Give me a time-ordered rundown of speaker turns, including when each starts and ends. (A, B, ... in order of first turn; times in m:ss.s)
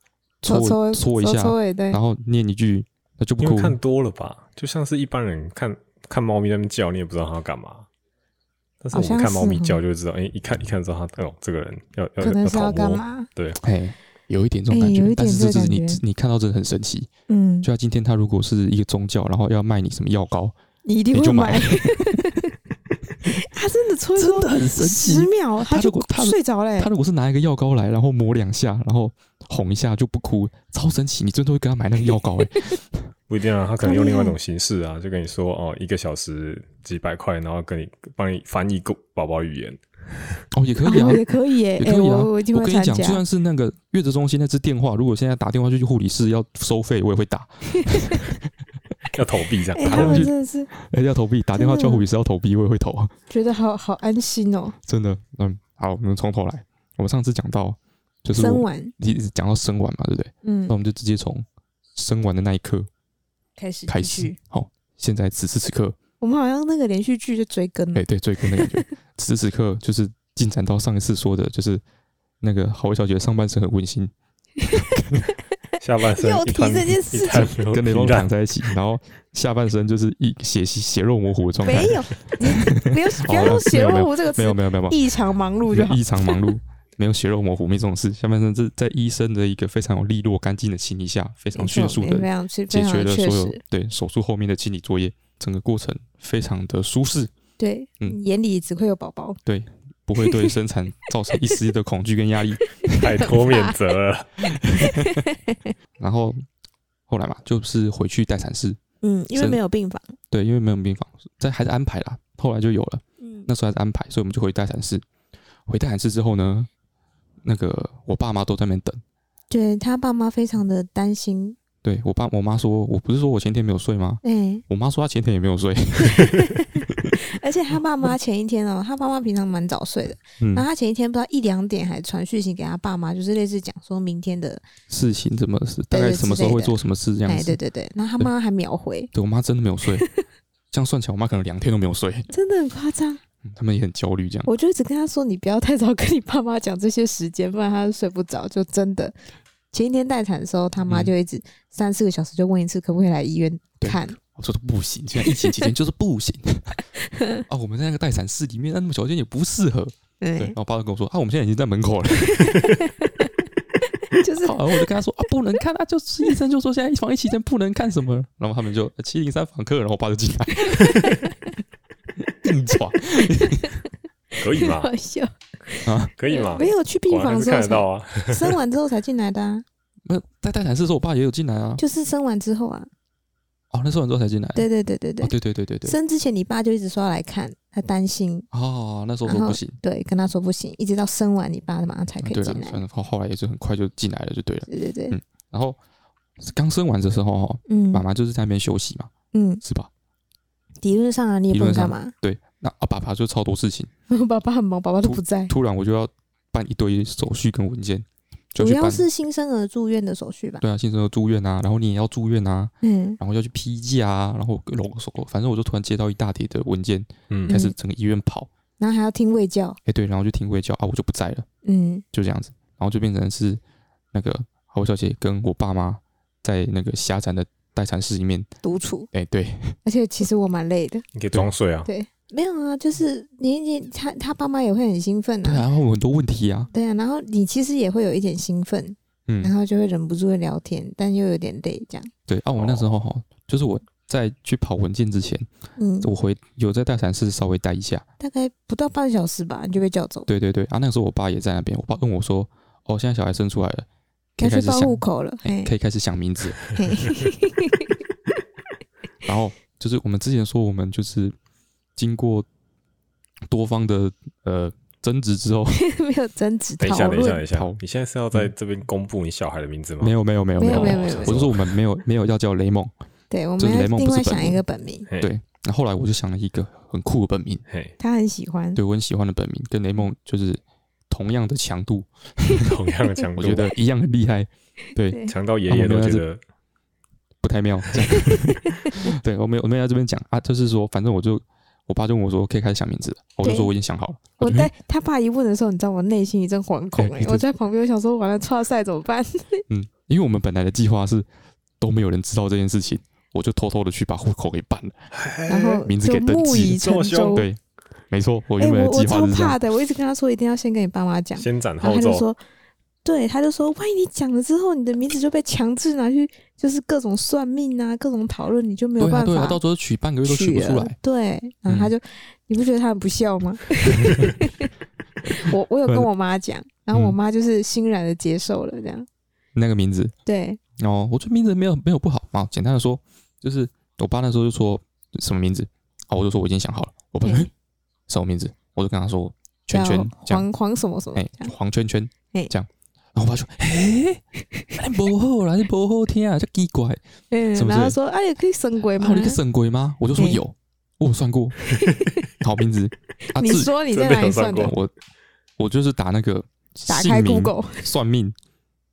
0:00.4-0:03.8 A
0:00.4-0:02.0 B
0:03.4-0:07.9 C
0:08.8-0:13.6 C
0:08.9-0:09.8 B
0:12.2-0:13.3 B
0:13.6-0:17.1 A
0:14.7-0:16.0 B
0:17.3-0:17.7 B
0:17.6-0:20.6 A
0:20.8-0:22.6 B
0:21.1-0:22.2 A
0:23.2-0:26.9 B
0:24.2-0:33.1 A
0:33.3-0:39.8 C
0:33.8-0:34.4 B
0:40.5-0:48.4 A
0:40.8-0:43.2 B
0:47.8-0:48.2 B
0:49.1-0:50.3 C
0:49.7-0:50.7 B
0:49.8-0:53.1 A
0:51.6-0:52.0 B
0:53.3-0:54.8 B
0:54.8-1:02.9 A
0:58.3-0:59.0 B
1:00.4-1:00.8 B
1:03.6-1:04.4 B
1:03.9-1:06.0 A
1:06.2-1:08.9 B
1:08.0-1:11.8 A
1:12.4-1:14.1 A
1:14.6-1:15.3 A
1:15.8-1:18.3 C
1:16.2-1:17.5 B
1:17.6-1:25.2 A
1:21.6-1:26.5 B
1:25.7-1:37.3 A
1:31.6-1:33.6 B
1:37.6-1:39.4 B
1:39.5-1:43.3 A
1:40.2-1:40.5 B
1:42.8-1:43.8 B
1:42.9-1:44.4 C
1:44.6-1:45.2 A
1:44.8-1:45.7 B
1:46.0-1:46.4 A
1:47.1-1:48.8 A
1:49.0-1:50.2 B
1:50.3-1:55.0 A
1:53.2-1:53.5 B
1:55.7-1:56.7 A
1:57.4-1:59.0 A
1:59.5-2:01.6 B
2:01.8-2:07.1 A
2:04.2-2:04.6 B
2:06.1-2:14.6 B
2:10.4-2:10.7 A
2:14.9-2:17.6 A
2:15.9-2:19.1 B
2:19.1-2:20.1 A
2:20.0-2:20.2 B
2:20.7-2:22.3 A
2:22.3-2:23.2 B
2:23.4-2:24.5 A
2:24.5-2:29.2 B
2:29.7-2:34.2 B
2:30.9-2:31.1 A
2:33.8-2:36.8 A
2:35.2-2:35.7 B
2:37.0-2:37.4 B
2:37.5-2:42.8 A
2:40.2-2:40.6 B
2:42.3-2:43.3 B
2:43.9-2:44.9 B
2:44.4-2:51.1 A
2:50.7-2:51.3 B
2:52.3-2:53.6 A
2:53.3-2:53.8 B
2:54.4-2:59.6 B
2:54.4-2:54.9 C
2:55.8-2:56.1 A
2:56.2-2:58.6 C
3:00.1-3:01.8 A
3:01.8-3:02.9 B
3:03.7-3:04.7 A
3:04.6-3:05.3 B
3:05.2-3:06.0 A
3:05.8-3:08.5 B
3:08.5-3:09.8 A
3:09.3-3:12.8 B
3:12.2-3:15.8 A
3:14.7-3:15.2 B
3:16.4-3:19.1 A
3:17.7-3:18.0 B
3:19.3-3:19.6 B
3:19.6-3:19.9 A
3:20.8-3:22.1 B
3:21.5-3:23.9 A
3:24.1-3:25.5 B
3:25.0-3:29.1 A
3:28.6-3:30.6 B
3:30.6-3:38.5 A
3:32.8-3:33.2 B
3:37.5-3:37.8 B
3:38.8-3:39.8 B
3:39.9-3:41.5 A
3:41.6-3:42.0 B
3:42.1-3:43.6 A
3:44.1-3:48.5 A
3:48.6-3:49.1 B
3:49.1-3:49.8 A
3:49.8-3:51.0 B
3:51.2-3:51.9 C
3:51.8-3:55.6 B
3:55.4-3:56.7 A
3:56.7-4:02.1 B
3:59.3-3:59.5 A
4:02.3-4:05.5 A
4:02.6-4:02.9 C
4:05.8-4:06.1 B
4:06.0-4:08.0 A
4:08.2-4:10.3 B
4:10.3-4:16.8 A
4:14.4-4:15.7 B
4:16.8-4:17.9 B
4:19.2-4:21.4 A
4:22.0-4:22.5 A
4:23.5-4:25.8 A
4:25.7-4:27.4 B
4:26.8-4:31.7 C
4:27.5-4:27.8 A
4:30.0-4:32.9 A
4:30.6-4:31.4 B
4:33.3-4:35.1 B
4:33.6-4:34.6 A
4:35.2-4:37.6 A
4:38.0-4:38.8 B
4:38.8-4:42.7 A
4:42.6-4:43.7 C
4:43.4-4:46.2 A
4:45.3-4:46.4 C
4:47.4-4:54.7 A
4:48.1-4:49.1 B
4:53.4-4:53.7 B
4:54.4-4:59.6 B
4:57.0-4:57.5 A
4:59.7-5:01.3 A
5:01.8-5:05.0 A
5:05.1-5:05.9 C
5:05.5-5:07.5 B
5:05.8-5:07.6 A
5:06.8-5:07.4 C
5:08.1-5:09.6 A
5:08.6-5:12.4 B
5:11.4-5:12.2 C
5:13.0-5:19.6 B
5:19.0-5:21.0 A
5:20.2-5:24.7 B
5:21.7-5:21.9 A
5:25.3-5:29.1 B
5:29.6-5:30.1 A
5:30.3-5:30.6 B
5:30.8-5:37.5 A
5:37.2-5:37.5 B
5:38.1-5:40.5 A
5:39.7-5:41.5 B
5:41.2-5:44.2 A
5:44.8-5:47.0 A
5:47.3-5:49.4 B
5:47.6-5:48.0 A
5:49.0-5:51.6 A
5:50.2-5:50.4 B
5:51.7-5:52.2 B
5:52.4-5:53.7 A
5:53.3-5:54.7 B
5:53.9-5:54.8 C
5:54.6-5:54.9 A
5:55.6-5:58.4 A
5:56.9-5:57.9 B